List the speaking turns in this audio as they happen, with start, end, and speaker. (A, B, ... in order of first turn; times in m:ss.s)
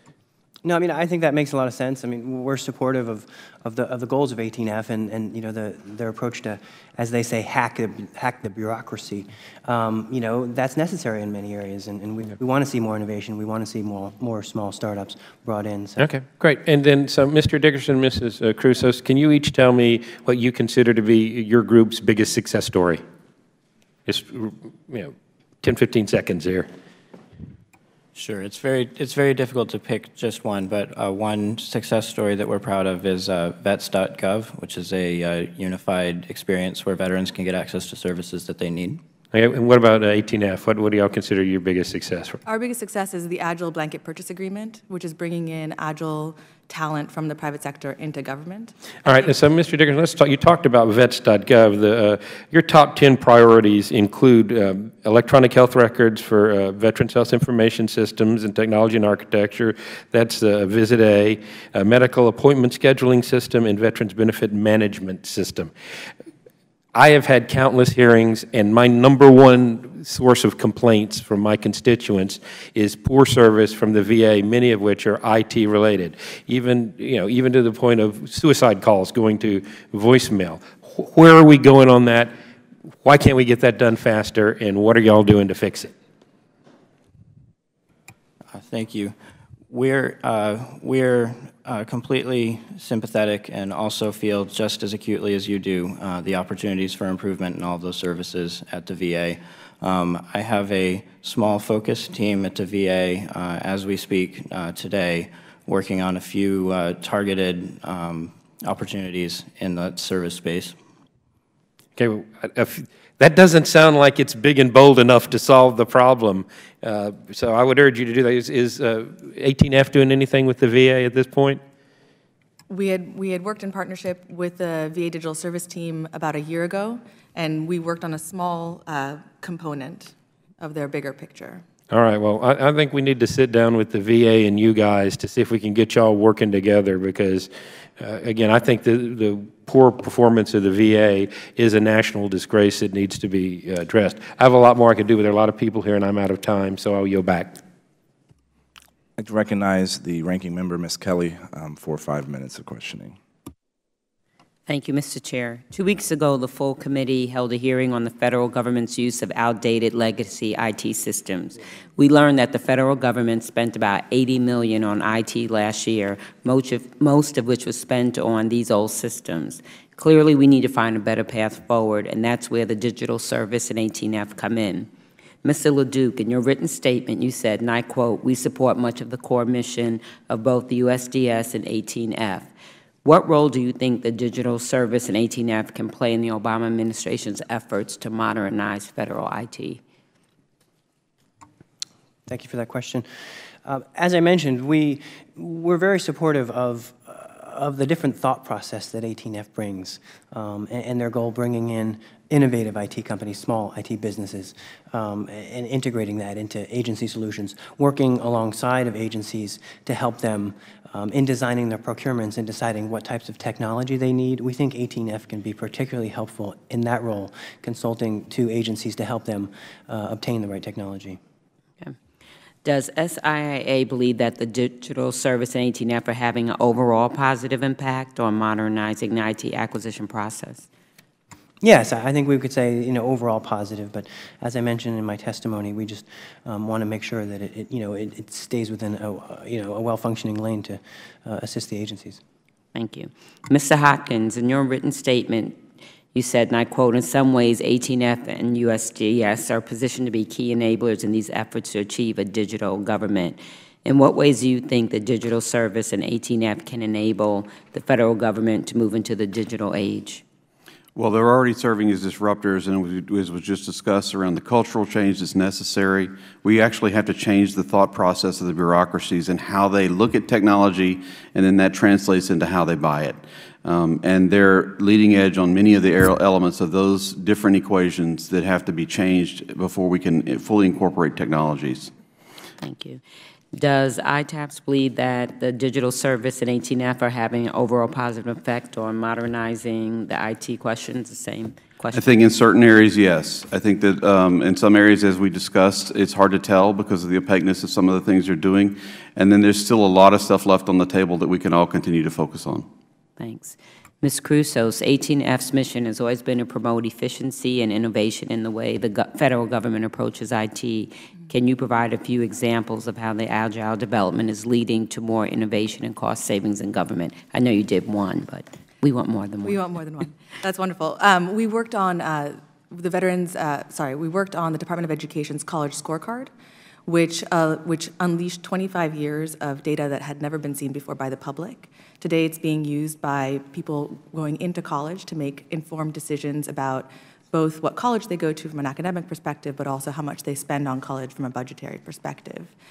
0:00.6-0:16.1 A
0:16.0-0:23.0 B
0:24.1-0:26.7 B
0:28.2-0:39.0 C
0:39.3-0:42.4 B
0:42.5-0:49.3 D
0:49.0-1:05.7 B
1:06.9-1:22.3 B
1:23.0-1:25.9 B
1:28.5-1:29.2 C
1:29.7-1:50.8 C
1:52.0-2:01.6 B
2:02.7-2:11.6 D
2:11.9-2:27.6 B
2:29.2-2:33.2 E
2:34.7-2:54.9 F
2:55.4-3:02.5 F
3:03.0-3:09.8 F
3:12.3-3:13.1 A
3:13.6-3:41.2 A
3:42.6-3:50.7 F
3:51.6-4:02.2 A
4:02.7-4:05.6 F
4:06.1-4:20.2 F
4:21.0-4:41.9 G
4:42.6-4:43.0 F
4:43.5-4:52.1 F
4:51.9-5:02.7 G
5:03.2-5:19.6 F
5:19.4-5:26.3 D
5:26.9-5:42.5 D